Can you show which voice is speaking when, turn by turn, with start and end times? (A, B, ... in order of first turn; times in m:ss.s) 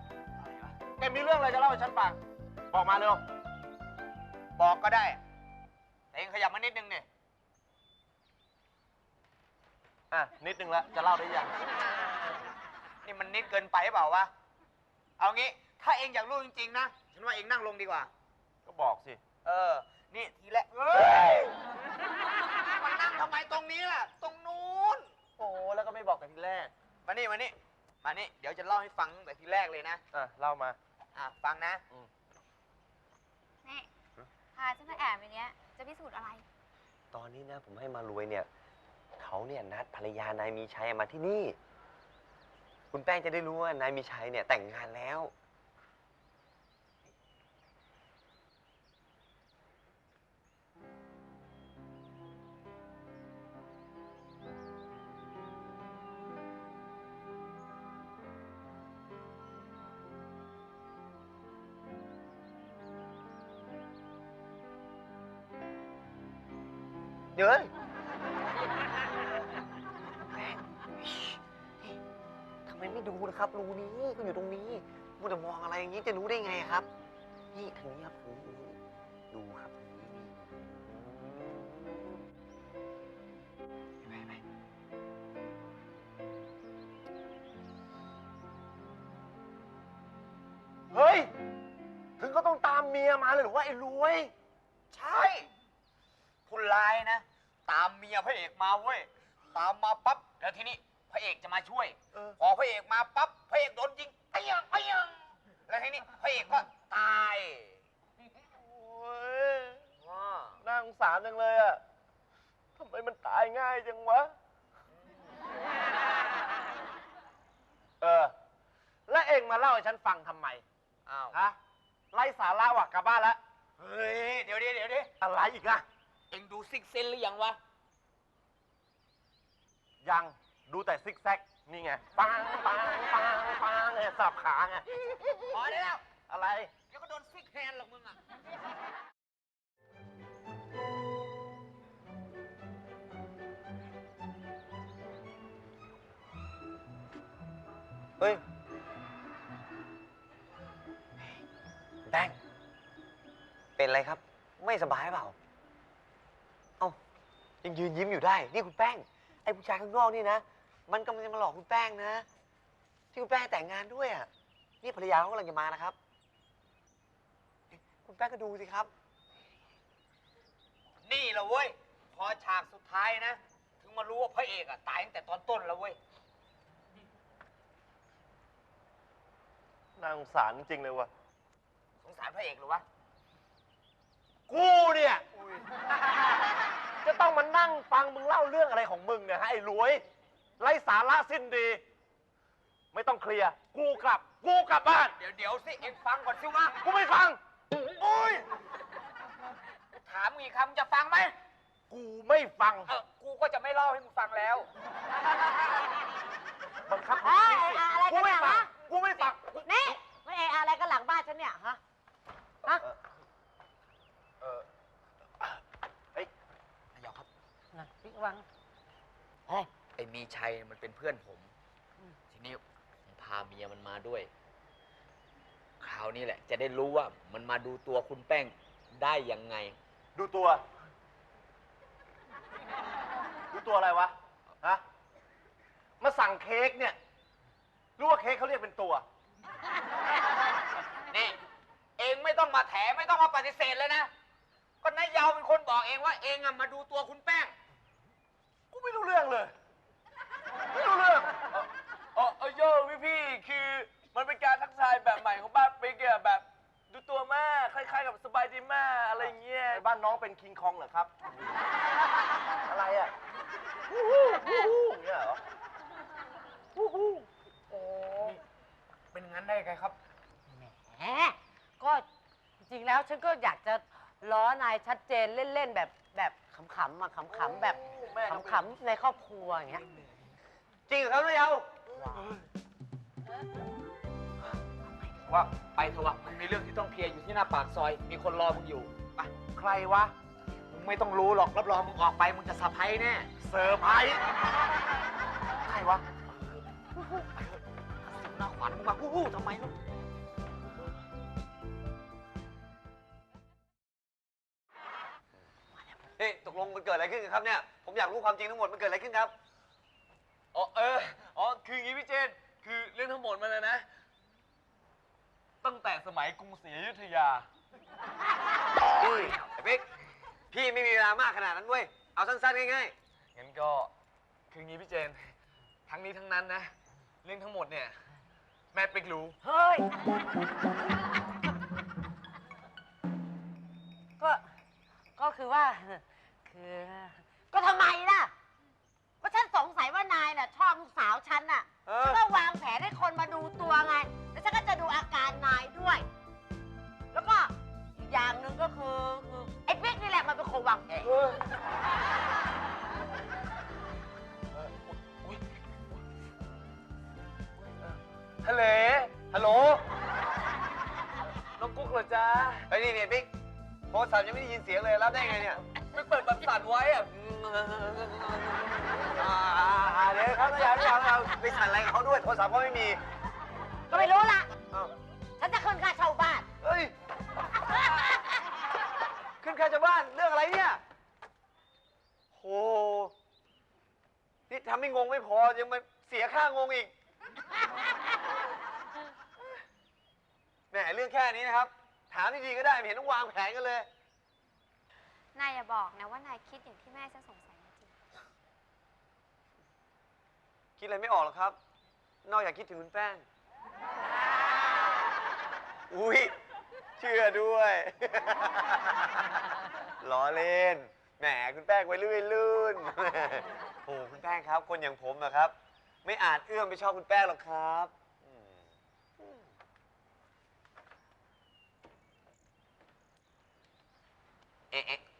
0:00.4-0:00.7 A
0:01.0-0:02.2 B
0:02.7-0:03.2 B
0:04.6-0:05.2 A
0:06.1-0:07.0 A
0:10.1-0:11.5 B
0:13.0-0:14.3 A
0:15.2-0:18.1 A
0:18.6-0:19.2 B
0:19.4-0:21.6 A
0:22.5-0:25.1 A
0:25.4-0:26.7 B
0:27.0-0:30.0 A
0:30.1-0:30.8 B
0:31.1-0:31.8 A
0:34.5-0:36.4 C
0:37.1-0:38.5 D
0:39.2-0:41.6 D
0:42.9-0:45.3 D
1:07.3-1:07.7 D
1:10.1-1:12.0 D
1:12.6-1:16.9 D
1:17.5-1:18.8 D
1:19.3-1:22.2 D
1:24.0-1:24.4 A
1:30.9-1:31.3 B
1:32.2-1:34.3 B
1:34.9-1:35.5 A
1:36.4-1:47.8 A
1:48.6-1:49.8 B
1:50.0-1:50.6 A
1:50.6-1:51.8 B
1:52.8-1:54.3 B
1:58.0-1:58.3 B
1:59.1-2:00.6 B
2:01.0-2:01.4 A
2:02.1-2:03.4 B
2:03.8-2:05.1 A
2:05.2-2:05.8 B
2:06.3-2:07.6 A
2:10.0-2:15.2 B
2:15.5-2:16.0 A
2:16.2-2:16.7 B
2:16.9-2:18.2 A
2:32.1-2:32.4 D
2:33.8-2:35.3 D
2:37.6-2:42.2 D
2:43.1-2:44.3 D
2:44.8-2:46.0 D
2:47.7-2:48.9 D
2:51.0-2:56.0 A
3:00.0-3:01.1 B
3:02.0-3:02.8 A
3:04.5-3:05.2 B
3:07.0-3:10.0 B
3:10.6-3:11.8 B
3:12.9-3:15.1 B
3:15.2-3:16.8 A
3:16.8-3:17.4 B
3:17.8-3:18.4 A
3:20.0-3:21.3 A
3:21.9-3:22.9 B
3:22.8-3:24.7 A
3:26.9-3:29.7 B
3:27.1-3:28.8 E
3:29.6-3:31.8 E
3:32.6-3:32.9 E
3:37.0-3:37.3 A
3:37.7-3:38.4 E
3:40.0-3:41.5 A
3:42.3-3:44.3 A
3:45.8-3:49.8 A
3:50.1-3:50.6 B
3:53.5-3:54.8 B
3:56.0-3:57.0 B
3:58.0-3:59.0 B
4:01.1-4:01.4 A
4:02.0-4:04.1 A
4:04.8-4:07.5 A
4:08.7-4:09.5 B
4:10.8-4:19.8 F
4:19.8-4:21.1 B
4:22.6-4:23.1 B
4:23.9-4:25.4 B
4:27.7-4:28.4 E
4:29.1-4:30.0 A
4:30.5-4:32.0 E
4:32.6-4:39.8 E
4:37.4-4:38.6 B
4:40.9-4:42.2 A
4:45.3-4:49.3 A
4:49.5-4:50.1 B
4:50.7-4:53.3 A
4:53.4-4:54.2 B
4:55.6-4:56.0 B
4:57.1-4:57.4 A
4:58.0-4:59.8 A
5:06.2-5:09.3 D
5:10.5-5:13.9 F
5:15.6-5:17.5 F
5:19.0-5:19.8 D
5:20.5-5:22.9 D
5:23.3-5:23.9 F
5:24.5-5:25.3 F
5:25.9-5:26.7 F
5:27.2-5:28.0 F
5:28.7-5:29.4 F
5:29.4-5:30.2 E
5:35.2-5:38.3 E
5:39.2-5:46.0 E
5:47.1-5:51.1 E
5:51.0-5:51.4 F
5:58.4-5:59.3 F
5:59.3-5:59.8 D
6:01.6-6:02.6 F
6:02.7-6:03.3 D
6:03.9-6:05.6 D
6:05.8-6:07.1 F
6:07.1-6:13.0 D
6:13.9-6:14.5 E
6:15.4-6:16.4 E
6:16.6-6:16.9 D
6:19.4-6:20.8 D
6:22.3-6:23.1 D
6:24.5-6:26.9 D
6:30.7-6:33.9 D
6:35.4-6:37.9 C
6:40.8-6:41.6 D
6:42.2-6:43.2 D
6:45.9-6:46.3 D
6:47.0-6:48.9 D
6:50.0-6:58.5 D
6:59.2-6:59.4 D
7:04.7-7:05.0 D